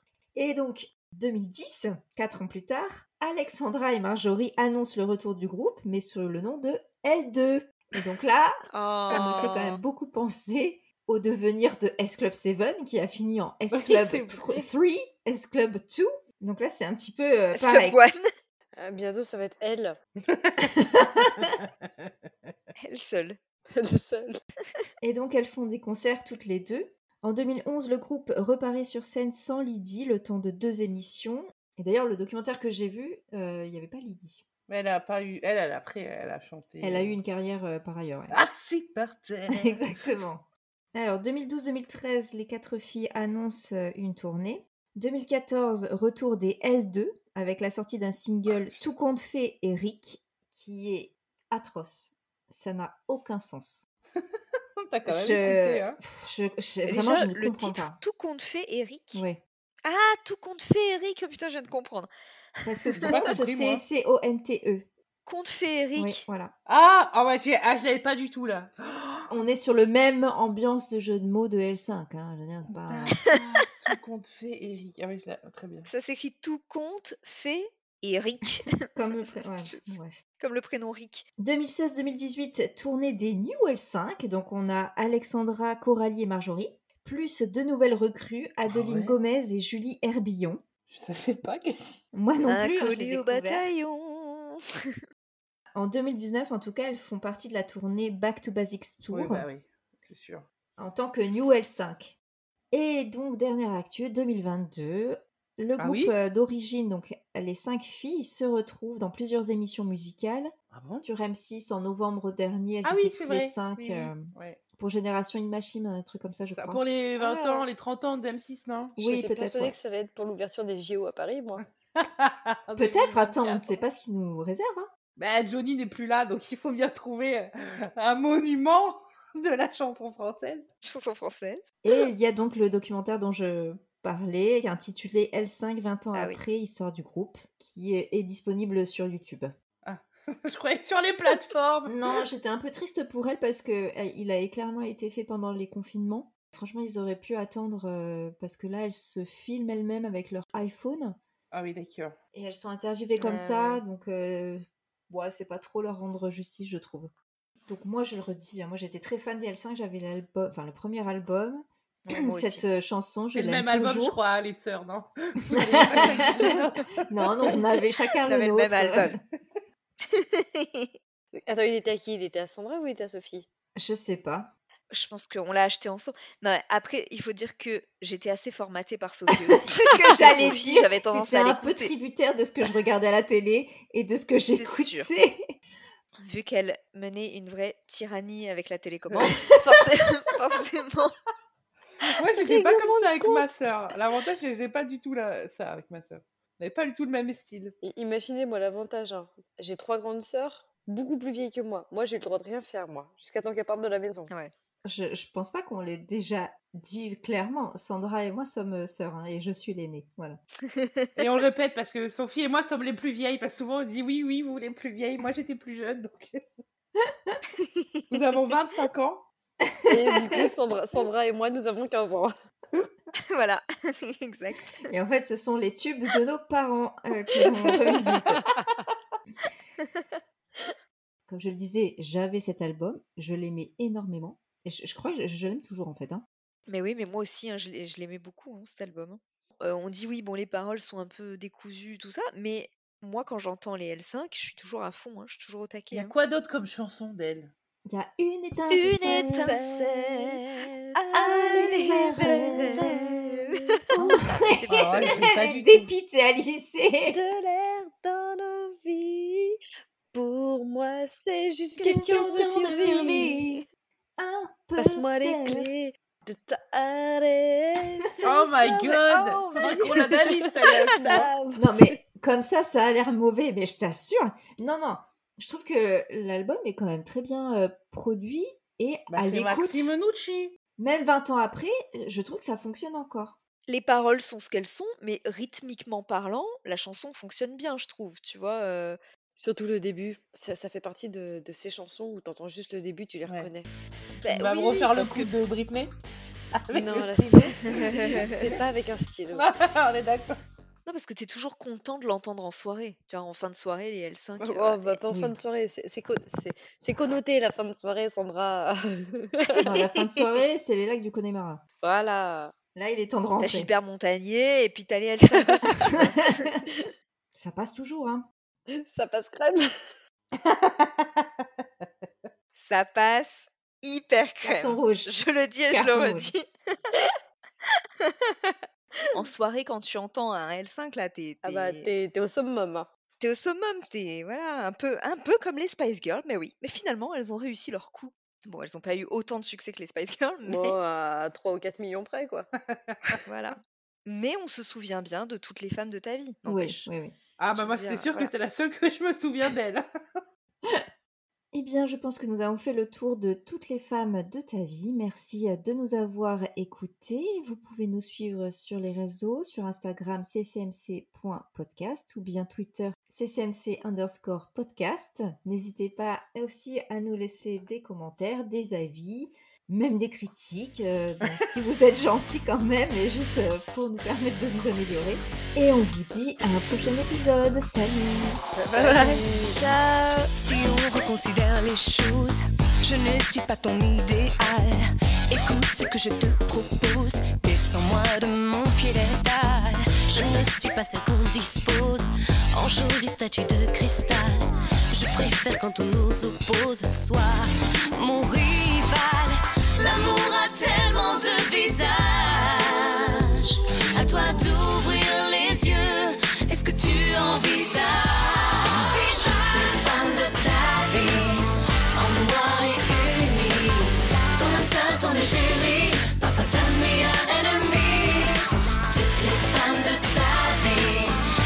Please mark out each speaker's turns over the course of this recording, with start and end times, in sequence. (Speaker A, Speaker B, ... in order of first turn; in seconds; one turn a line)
Speaker A: 0.3-18.0
Speaker B: 8.7-9.8
Speaker C: 9.1-9.6
Speaker C: 13.7-14.7
Speaker B: 17.5-18.2
Speaker D: 18.8-20.0
Speaker C: 20.2-22.1
Speaker A: 20.6-21.5
Speaker B: 22.8-23.4
Speaker D: 23.7-24.4
Speaker A: 25.0-34.4
Speaker C: 34.7-37.2
Speaker A: 36.8-38.4
Speaker C: 38.3-39.9
Speaker A: 39.5-53.9
Speaker C: 48.5-48.8
Speaker C: 54.8-56.0
Speaker A: 55.1-58.0
Speaker B: 56.9-59.2
Speaker A: 59.1-59.4
Speaker B: 59.9-62.1
Speaker B: 62.6-63.1
Speaker A: 62.6-64.9
Speaker C: 63.0-63.8
Speaker B: 65.3-66.2
Speaker A: 66.0-66.5
Speaker C: 66.7-69.3
Speaker A: 69.3-73.2
Speaker C: 72.7-75.9
Speaker B: 75.9-78.8
Speaker A: 78.9-80.2
Speaker B: 79.7-81.2
Speaker A: 81.4-90.6
Speaker C: 88.7-89.2
Speaker C: 90.9-92.0
Speaker A: 92.1-93.7
Speaker B: 92.5-94.6
Speaker A: 95.8-99.5
Speaker C: 99.1-100.5
Speaker A: 100.8-102.2
Speaker A: 102.7-116.8
Speaker C: 105.8-106.1
Speaker C: 110.7-111.1
Speaker C: 112.8-114.6
Speaker C: 116.5-119.0
Speaker D: 117.2-117.7
Speaker A: 119.0-119.8
Speaker D: 119.0-121.6
Speaker C: 122.0-123.8
Speaker A: 122.8-124.9
Speaker C: 125.2-130.7
Speaker B: 130.8-131.7
Speaker A: 131.8-139.5
Speaker B: 136.1-136.4
Speaker C: 139.8-142.1
Speaker A: 141.9-151.2
Speaker C: 151.5-152.2
Speaker A: 152.3-157.1
Speaker B: 153.2-153.8
Speaker A: 157.7-164.2
Speaker B: 162.1-162.7
Speaker C: 163.3-167.6
Speaker A: 165.5-166.5
Speaker A: 167.1-169.2
Speaker B: 168.3-169.1
Speaker B: 170.1-170.9
Speaker D: 171.4-173.5
Speaker A: 173.8-174.5
Speaker B: 174.9-181.9
Speaker A: 179.5-185.5
Speaker B: 184.5-185.1
Speaker B: 186.2-191.2
Speaker C: 192.0-197.8
Speaker D: 192.6-193.3
Speaker D: 197.8-204.3
Speaker A: 204.8-210.4
Speaker B: 210.7-211.1
Speaker C: 211.2-216.4
Speaker A: 217.0-217.4
Speaker B: 217.6-218.0
Speaker C: 218.1-219.3
Speaker A: 219.7-220.4
Speaker D: 219.9-222.3
Speaker B: 223.3-224.8
Speaker A: 224.9-228.4
Speaker A: 231.3-236.2
Speaker B: 236.7-246.1
Speaker C: 245.9-247.5
Speaker A: 247.9-249.6
Speaker B: 248.6-251.0
Speaker D: 248.9-250.4
Speaker D: 251.0-253.8
Speaker A: 251.1-252.8
Speaker B: 251.5-252.0
Speaker B: 253.2-255.2
Speaker A: 254.0-257.2
Speaker C: 254.7-255.9
Speaker D: 257.1-259.6
Speaker D: 260.1-263.5
Speaker A: 261.8-263.6
Speaker A: 264.2-265.7
Speaker D: 264.8-271.9
Speaker C: 268.2-271.3
Speaker A: 271.6-279.9
Speaker C: 279.1-280.6
Speaker A: 280.8-283.4
Speaker B: 283.7-289.0
Speaker D: 289.4-293.7
Speaker C: 294.2-295.9
Speaker B: 294.2-295.3
Speaker C: 296.6-298.2
Speaker D: 296.7-299.5
Speaker B: 297.7-298.4
Speaker C: 299.3-300.4
Speaker B: 300.9-305.0
Speaker D: 304.4-309.8
Speaker A: 305.1-305.4
Speaker A: 309.6-311.6
Speaker D: 311.8-312.5
Speaker A: 312.8-313.7
Speaker B: 313.4-316.2
Speaker D: 315.4-316.1
Speaker A: 315.9-316.6
Speaker A: 317.3-318.3
Speaker D: 318.8-319.7
Speaker C: 320.4-322.3
Speaker B: 322.6-326.4
Speaker A: 324.4-325.1
Speaker A: 325.7-326.3
Speaker B: 329.1-331.9
Speaker D: 331.4-332.9
Speaker B: 333.2-340.8
Speaker D: 340.4-342.5
Speaker C: 342.7-343.0
Speaker B: 343.3-346.9
Speaker A: 346.4-347.1
Speaker C: 347.4-349.9
Speaker B: 347.5-348.3
Speaker A: 351.5-378.4
Speaker C: 378.6-379.2
Speaker D: 378.7-379.6
Speaker E: 379.5-394.4
Speaker E: 394.9-397.4
Speaker E: 398.0-399.2
Speaker E: 399.9-402.7
Speaker E: 404.0-408.0
Speaker E: 409.7-411.4
Speaker E: 412.0-418.3
Speaker E: 418.9-421.1